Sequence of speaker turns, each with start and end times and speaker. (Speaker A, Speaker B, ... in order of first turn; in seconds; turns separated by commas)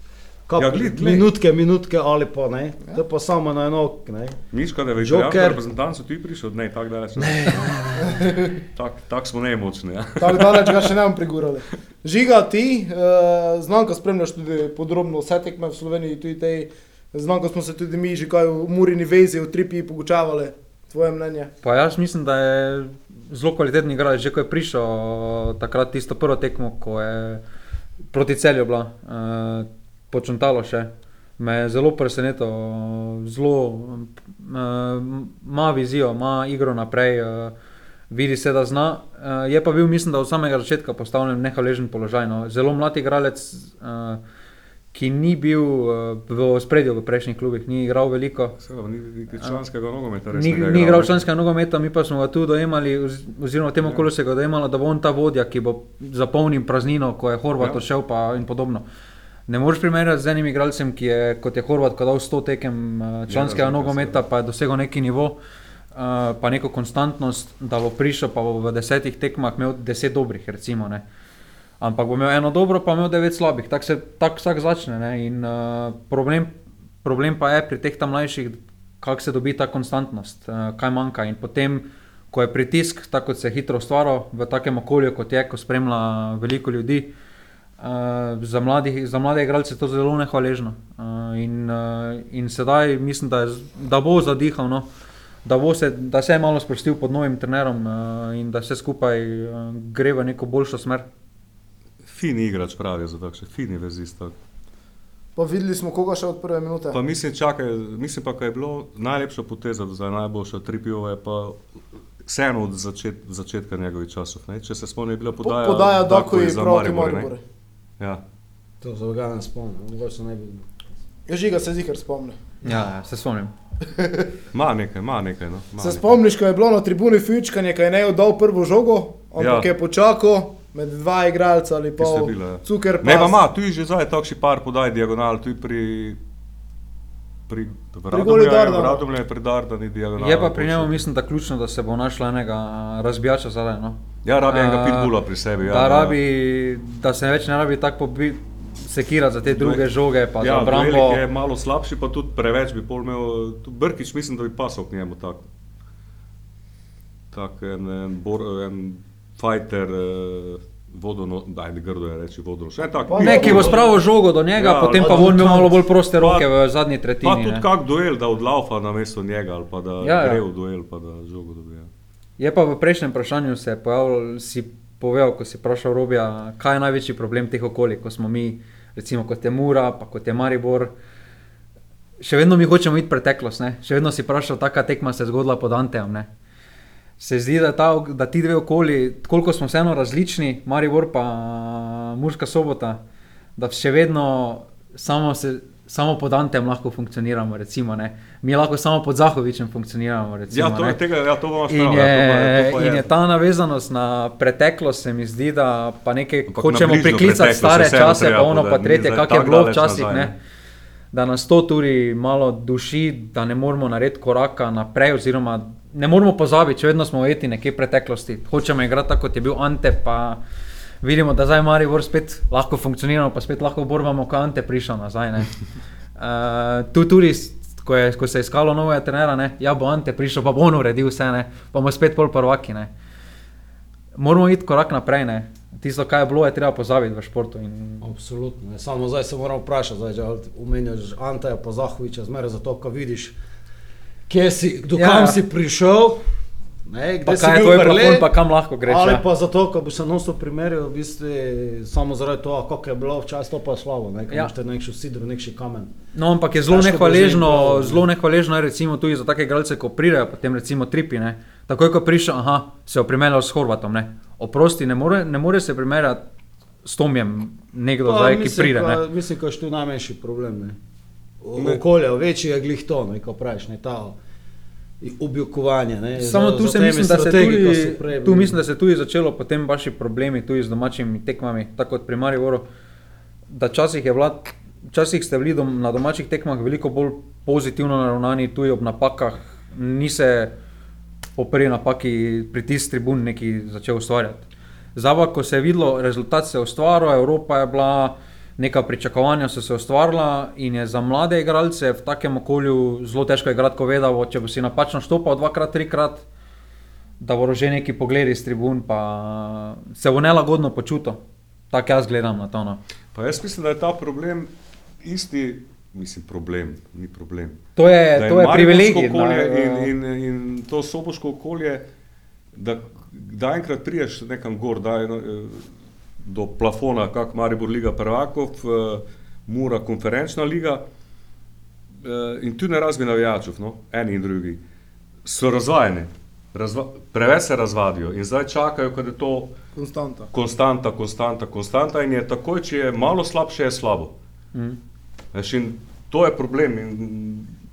Speaker A: 0.5-4.4, Speaker B: 0.6-1.3, Speaker B: 4.5-10.8, Speaker A: 5.0-5.6, Speaker A: 7.2-8.3, Speaker C: 8.1-8.6, Speaker C: 10.2-21.5, Speaker D: 21.6-27.4, Speaker D: 28.1-37.5, Speaker D: 38.1-44.2, Speaker D: 44.9-48.6, Speaker B: 48.6-51.2, Speaker D: 50.3-58.9, Speaker D: 59.5-65.4, Speaker B: 63.3-64.2, Speaker D: 65.9-71.0, Speaker D: 71.8-87.1, Speaker D: 87.8-94.9, Speaker D: 95.5-101.1, Speaker B: 102.1-104.3, Speaker C: 105.4-107.0, Speaker B: 106.9-111.6, Speaker B: 112.3-117.3, Speaker C: 115.4-117.4, Speaker A: 118.8-120.7, Speaker C: 121.3-122.4, Speaker D: 122.6-123.5, Speaker B: 124.5-126.2, Speaker C: 125.8-133.4, Speaker B: 129.4-129.7, Speaker B: 132.0-136.2, Speaker B: 137.5-141.0, Speaker C: 138.1-139.0, Speaker D: 140.2-151.2, Speaker B: 144.2-146.2, Speaker B: 149.5-149.9, Speaker B: 150.4-155.5, Speaker B: 157.3-163.8, Speaker C: 163.1-163.9, Speaker D: 163.2-167.7, Speaker A: 163.3-163.7, Speaker B: 164.6-166.5, Speaker A: 164.9-165.7, Speaker B: 167.2-171.9, Speaker D: 170.0-170.4, Speaker D: 172.4-180.9, Speaker D: 182.2-186.3, Speaker D: 187.2-193.0, Speaker D: 193.6-201.0, Speaker B: 200.5-203.1, Speaker D: 201.7-210.3, Speaker B: 206.5-210.3, Speaker D: 211.1-220.4, Speaker D: 221.0-225.5, Speaker D: 226.2-232.9, Speaker D: 234.2-238.1, Speaker A: 238.0-243.4, Speaker A: 244.3-246.2, Speaker D: 244.9-245.4, Speaker A: 246.9-248.3, Speaker D: 247.2-249.2, Speaker A: 248.8-255.9, Speaker D: 256.1-266.2, Speaker A: 256.7-258.1, Speaker D: 266.8-269.0, Speaker A: 268.1-270.8, Speaker A: 271.4-274.2, Speaker B: 271.6-271.8, Speaker A: 275.0-278.6, Speaker D: 276.2-282.6, Speaker D: 283.5-290.5, Speaker D: 291.4-306.2, Speaker D: 307.2-311.2, Speaker D: 311.7-312.8, Speaker B: 313.1-314.5, Speaker B: 315.0-317.6, Speaker D: 317.8-319.9, Speaker B: 318.1-321.8, Speaker B: 322.6-325.7, Speaker B: 326.2-330.8, Speaker B: 332.0-334.6, Speaker B: 335.2-339.5, Speaker C: 339.8-340.3, Speaker B: 340.3-344.1, Speaker B: 345.3-347.5